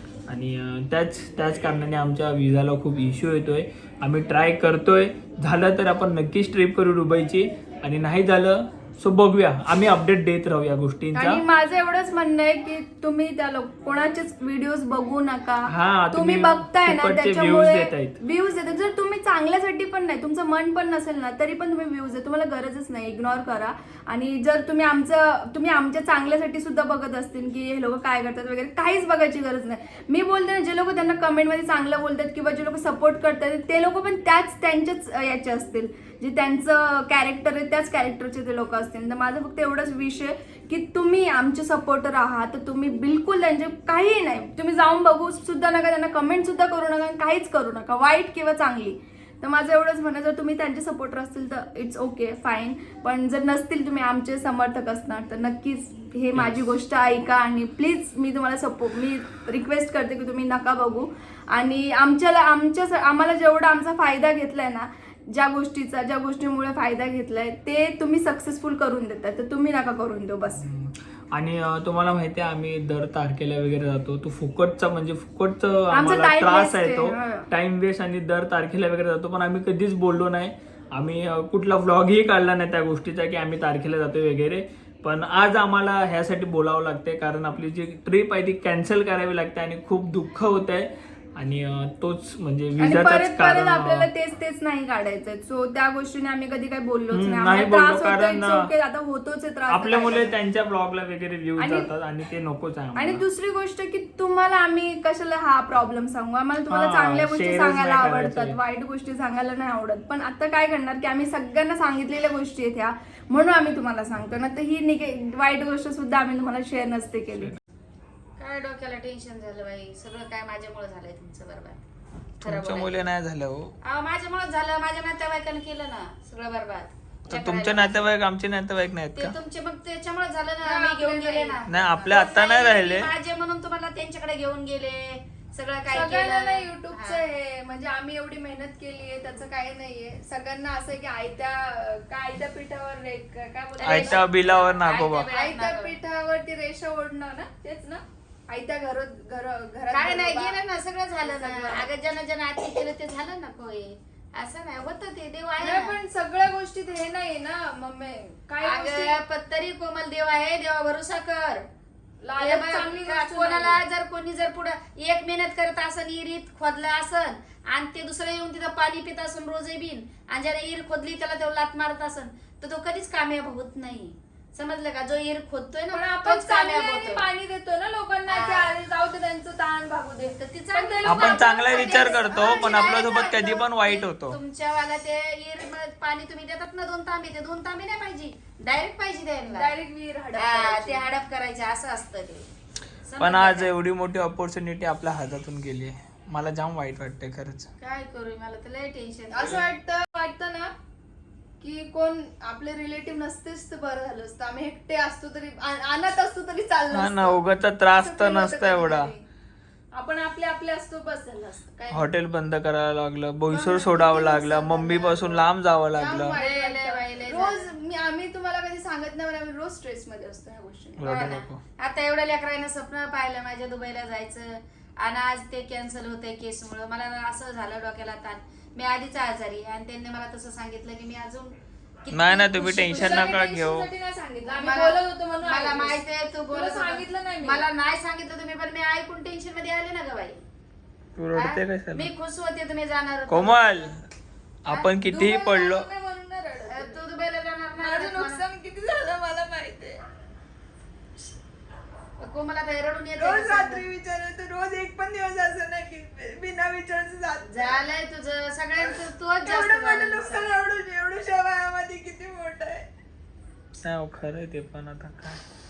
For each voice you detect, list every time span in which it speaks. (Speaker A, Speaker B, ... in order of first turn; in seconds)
Speaker A: 0.3-11.4, 15.7-18.2, 70.5-94.1, 97.1-98.7, 99.7-103.2, 106.7-108.6, 122.4-123.7, 127.3-129.3, 131.7-133.1, 143.8-145.3, 181.0-184.4, 193.2-197.7, 206.9-209.1, 211.9-216.4, 221.0-221.6, 232.1-233.9, 241.2-242.1, 243.3-244.0, 244.7-245.9, 263.8-265.4
Speaker B: 11.1-70.6, 75.9-77.5, 92.8-100.4, 101.6-101.9, 103.0-117.6, 130.6-132.1, 135.9-144.3, 145.3-150.6, 151.2-151.9, 155.6-159.2, 162.2-163.8, 175.9-183.3, 189.5-191.0, 199.3-200.7, 201.6-209.2, 209.9-212.1, 213.5-221.1, 232.6-235.9, 236.5-237.6
Speaker C: 118.4-121.8, 122.5-123.1, 123.8-128.1, 129.2-137.2, 143.8-145.9, 149.9-155.9, 158.6-161.7, 162.4-177.2, 178.3-178.7, 180.3-189.7, 190.3-192.5, 193.1-193.7, 197.8-199.6, 216.1-217.7, 221.1-232.5, 234.6-240.4, 241.3-243.9, 246.7-248.4, 252.2-253.8, 257.5-260.5
Speaker D: 232.9-233.7, 235.3-235.9, 236.6-237.4, 245.0-247.0, 247.8-250.0, 253.2-257.7, 258.9-262.9